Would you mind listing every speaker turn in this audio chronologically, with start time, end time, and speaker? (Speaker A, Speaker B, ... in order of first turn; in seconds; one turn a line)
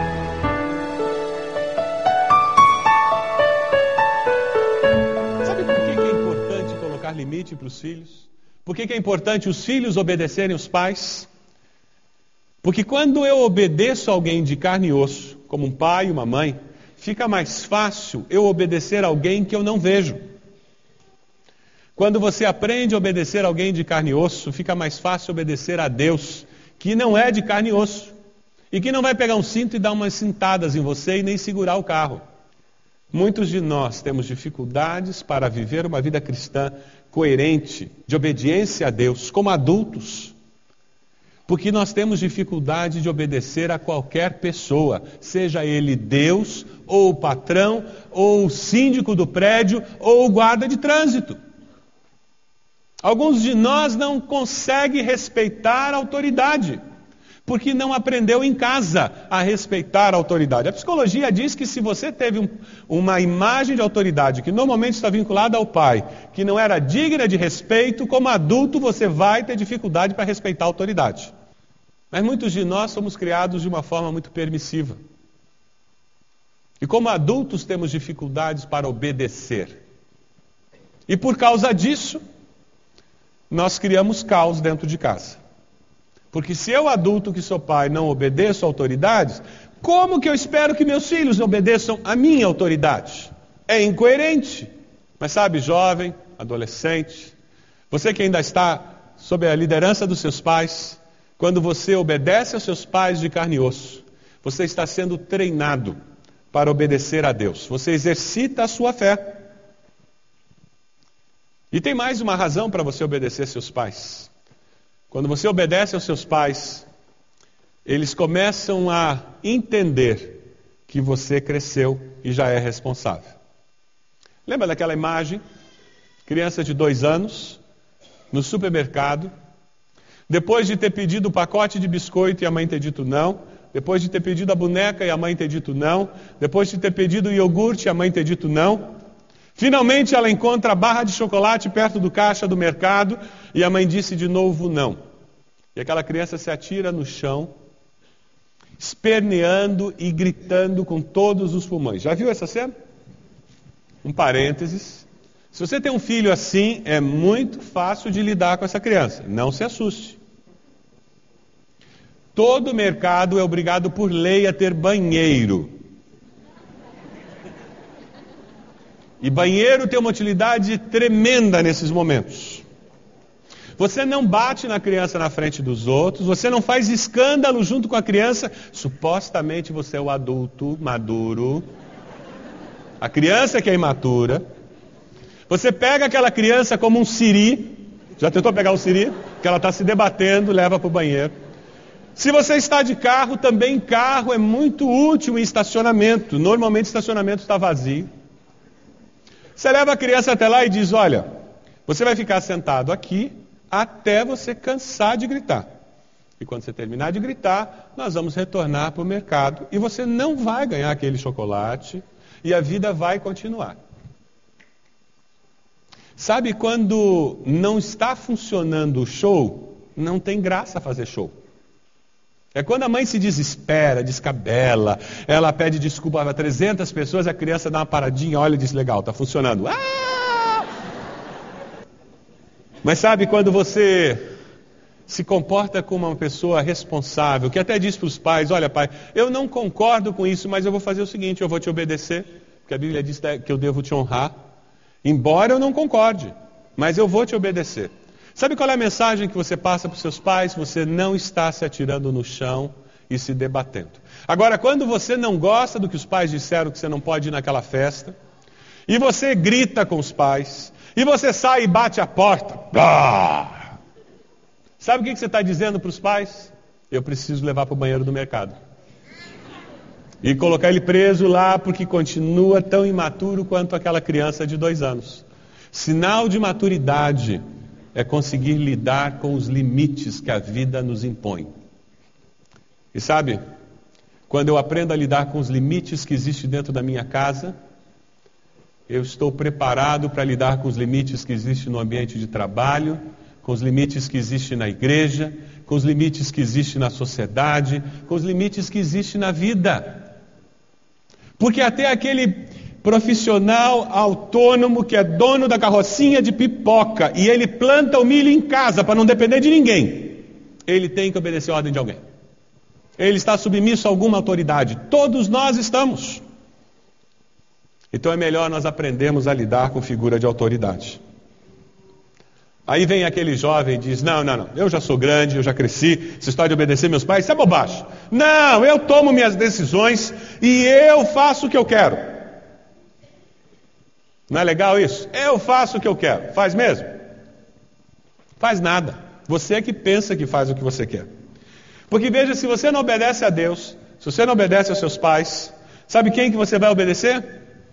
Speaker A: 5.4-11.3
Speaker A: 12.6-20.2
Speaker A: 21.9-28.1
Speaker A: 28.7-32.2
Speaker A: 33.1-40.3
Speaker A: 41.5-51.4
Speaker A: 53.0-56.8
Speaker A: 57.4-71.3
Speaker A: 72.1-75.0
Speaker A: 76.8-79.8
Speaker A: 81.1-82.2
Speaker A: 83.5-85.4
Speaker A: 86.3-97.3
Speaker A: 97.9-106.0
Speaker A: 106.5-109.4
Speaker A: 111.7-114.3
Speaker A: 115.1-116.9
Speaker A: 117.8-123.3
Speaker A: 124.5-125.4
Speaker A: 126.2-127.6
Speaker A: 128.3-129.3
Speaker A: 130.3-138.9
Speaker A: 139.5-145.0
Speaker A: 145.7-147.5
Speaker A: 148.8-152.7
Speaker A: 154.0-160.2
Speaker A: 162.3-165.7
Speaker A: 169.2-172.6
Speaker A: 173.8-181.7
Speaker A: 183.0-184.4
Speaker A: 185.5-191.3
Speaker A: 192.2-198.1
Speaker A: 199.6-201.2
Speaker A: 201.8-205.7
Speaker A: 206.4-213.8
Speaker A: 216.2-221.3
Speaker A: 222.5-230.7
Speaker A: 232.8-234.2
Speaker A: 235.1-244.3
Speaker A: 245.0-258.1
Speaker A: 258.9-263.7
Speaker A: 264.8-268.5
Speaker A: 270.2-277.4
Speaker A: 277.9-281.5
Speaker A: 282.9-283.4
Speaker A: 284.3-287.5
Speaker A: 288.9-300.1
Speaker A: 301.4-312.0
Speaker A: 313.0-316.2
Speaker A: 317.9-321.0
Speaker A: 322.7-332.2
Speaker A: 334.3-336.9
Speaker A: 338.4-341.1
Speaker A: 341.9-347.2